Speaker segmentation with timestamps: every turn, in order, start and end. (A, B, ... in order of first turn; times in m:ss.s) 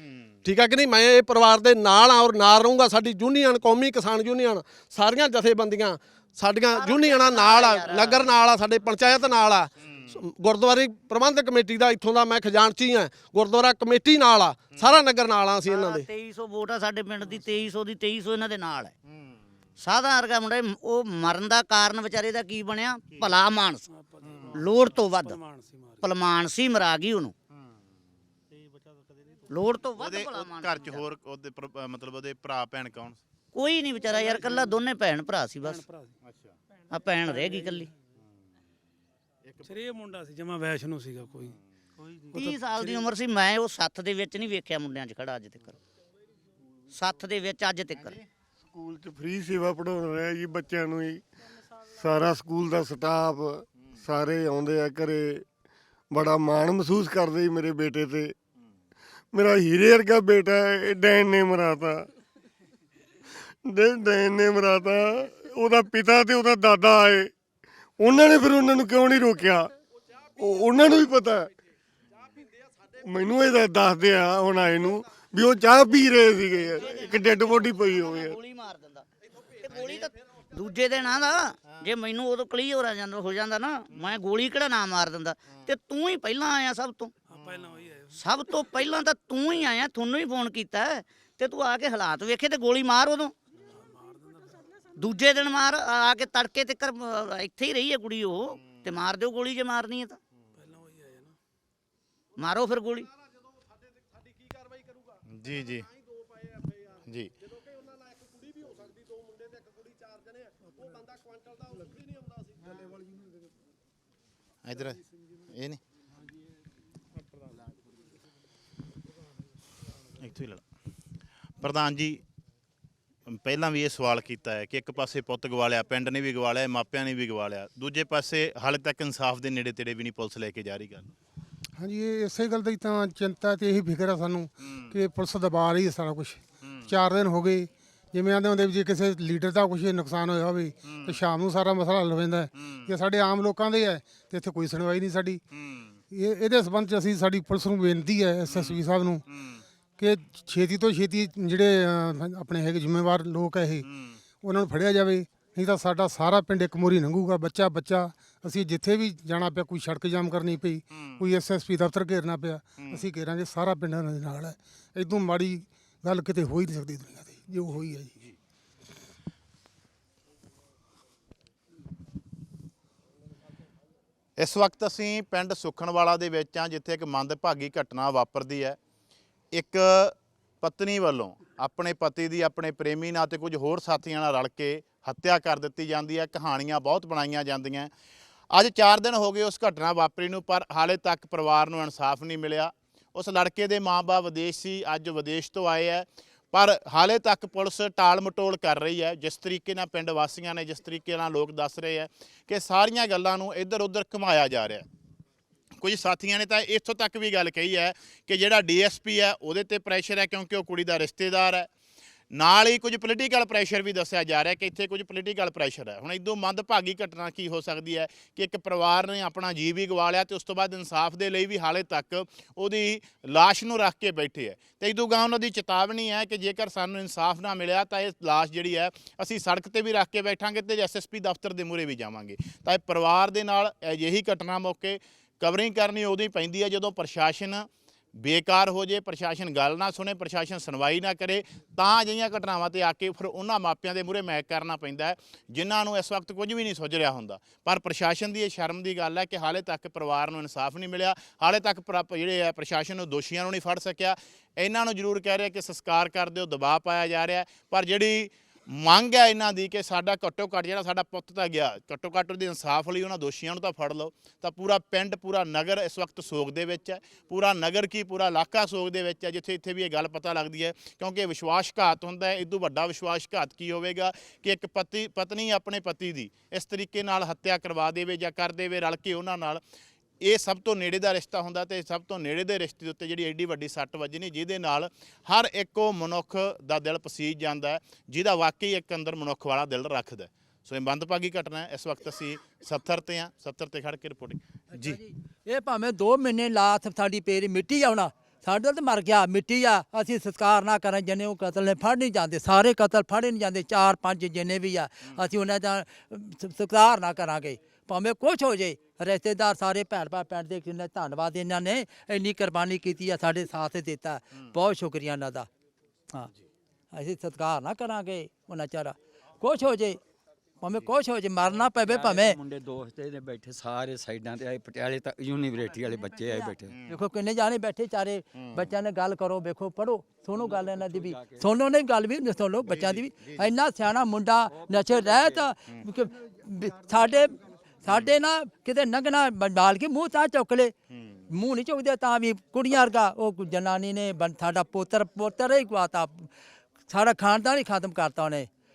0:00.4-0:16.0 A
0:06.7-0:08.3 B
0:15.6-0:18.9 B
0:19.8-0:23.9 B
0:23.9-0:26.0 C
0:24.5-0:25.4 B
0:26.0-0:27.3 B
0:29.0-0:29.4 C
0:29.5-0:31.0 B
0:30.0-0:33.2 D
0:33.5-0:35.8 B
0:35.6-0:36.1 C
0:36.2-0:36.6 D
0:36.9-0:37.9 B
0:37.2-0:37.7 C
0:39.4-0:39.7 D
0:39.6-0:43.1 C
0:42.3-0:45.8 B
0:46.9-0:48.2 B
0:48.7-0:51.2 E
0:52.0-0:55.4 E
0:56.1-0:58.3 E
0:59.3-1:02.0 E
1:03.7-1:07.3 E
1:08.0-1:09.7 E
1:10.4-1:11.5 E
1:13.0-1:18.3 E
1:16.7-1:19.0 B
1:19.6-1:27.1 B
1:27.3-1:28.3 C
1:28.1-1:33.3 B
1:33.7-1:34.6 C
1:35.0-1:40.2 B
1:40.6-1:41.3 C
1:42.4-1:43.1 B
1:45.3-1:45.9 D
1:54.6-1:55.0 D
1:55.5-1:55.8 D
2:00.2-2:00.6 D
2:01.6-2:02.2 D
2:03.3-2:11.1 D
2:11.8-2:25.4 F
2:20.9-2:21.2 D
2:25.5-2:26.0 D
2:26.1-2:29.2 F
2:28.5-2:28.8 D
2:29.3-2:29.6 D
2:30.0-2:33.9 F
2:33.9-2:34.2 D
2:34.4-2:48.2 F
2:54.4-2:58.8 D
2:59.5-3:07.9 D
3:08.5-3:24.8 D
3:25.8-3:31.7 D
3:32.3-4:39.6 D
4:40.2-4:55.0 D
4:54.8-5:15.5 G
5:16.9-5:20.0 G
5:20.6-5:22.4 G
5:21.4-5:26.8 H
5:26.9-5:40.7 G
5:30.3-5:31.5 H
5:32.7-5:33.4 D
5:34.4-5:35.6 H
5:40.9-5:41.2 D
5:41.3-5:46.3 G
5:46.9-5:48.5 G